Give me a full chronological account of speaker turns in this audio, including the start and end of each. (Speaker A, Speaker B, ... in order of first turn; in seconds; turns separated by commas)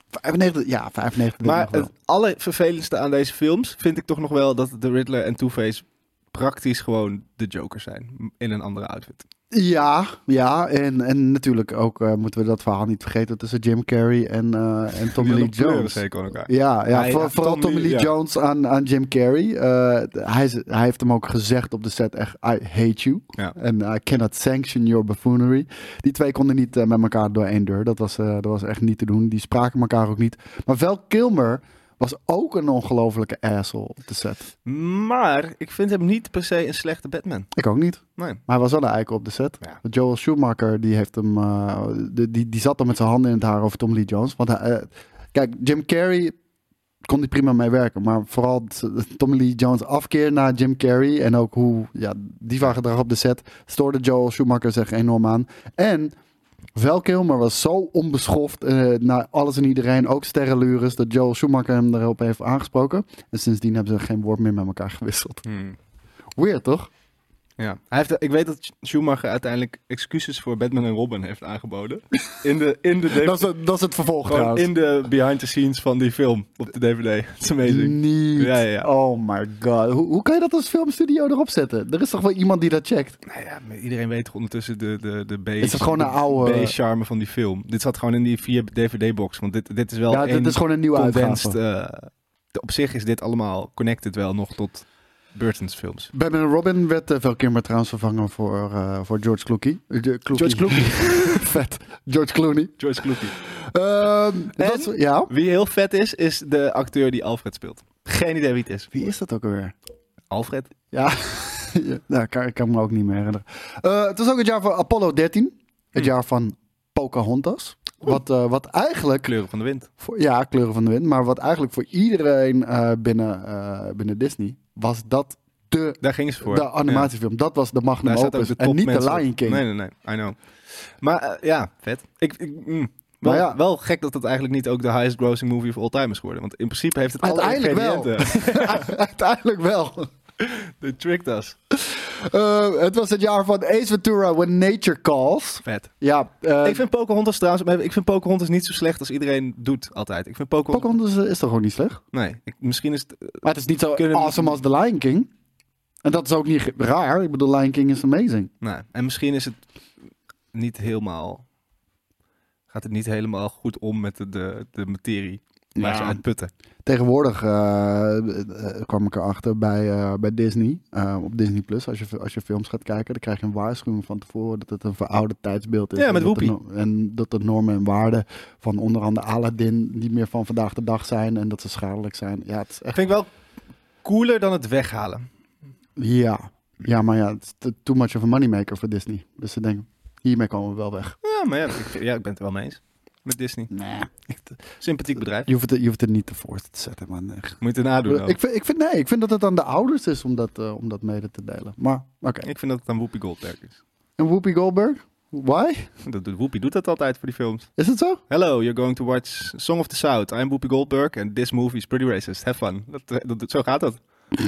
Speaker A: 0.1-1.9, Speaker B: 1.4-9.2, Speaker A: 9.5-34.5, Speaker B: 15.2-18.1, Speaker B: 34.6-37.5, Speaker A: 37.5-46.3, Speaker A: 47.0-56.1, Speaker A: 56.7-65.4, Speaker B: 65.4-65.8, Speaker A: 66.3-66.9, Speaker B: 67.6-73.5, Speaker A: 73.1-74.7, Speaker B: 74.3-78.9, Speaker A: 77.6-83.2, Speaker B: 83.3-96.1, Speaker A: 85.6-86.7, Speaker A: 90.1-91.6, Speaker A: 96.1-105.3, Speaker B: 100.3-101.5, Speaker B: 102.8-103.3, Speaker B: 104.6-108.9, Speaker A: 108.9-109.7, Speaker B: 110.3-110.7, Speaker A: 110.9-119.3, Speaker B: 119.2-119.9, Speaker A: 120.0-129.6, Speaker B: 126.0-127.1, Speaker B: 128.0-138.9, Speaker A: 133.2-133.6, Speaker A: 137.2-140.1, Speaker B: 140.4-141.6, Speaker A: 141.7-146.8, Speaker B: 145.6-145.9, Speaker B: 146.6-150.9, Speaker A: 150.7-152.0, Speaker B: 152.1-153.4, Speaker A: 153.4-155.3, Speaker B: 153.9-154.6, Speaker A: 156.0-158.5, Speaker B: 158.6-159.6, Speaker B: 160.5-161.4, Speaker B: 162.7-166.5, Speaker A: 165.8-166.2, Speaker A: 166.8-183.0, Speaker B: 175.9-176.5, Speaker B: 182.9-183.3, Speaker B: 184.0-185.3, Speaker A: 186.0-191.2, Speaker B: 191.2-193.7, Speaker A: 193.7-194.6, Speaker B: 194.8-195.5, Speaker A: 195.4-202.5, Speaker B: 197.6-198.4, Speaker B: 202.4-203.8, Speaker A: 204.2-205.9, Speaker B: 206.0-207.7, Speaker A: 207.8-208.2, Speaker B: 208.3-214.0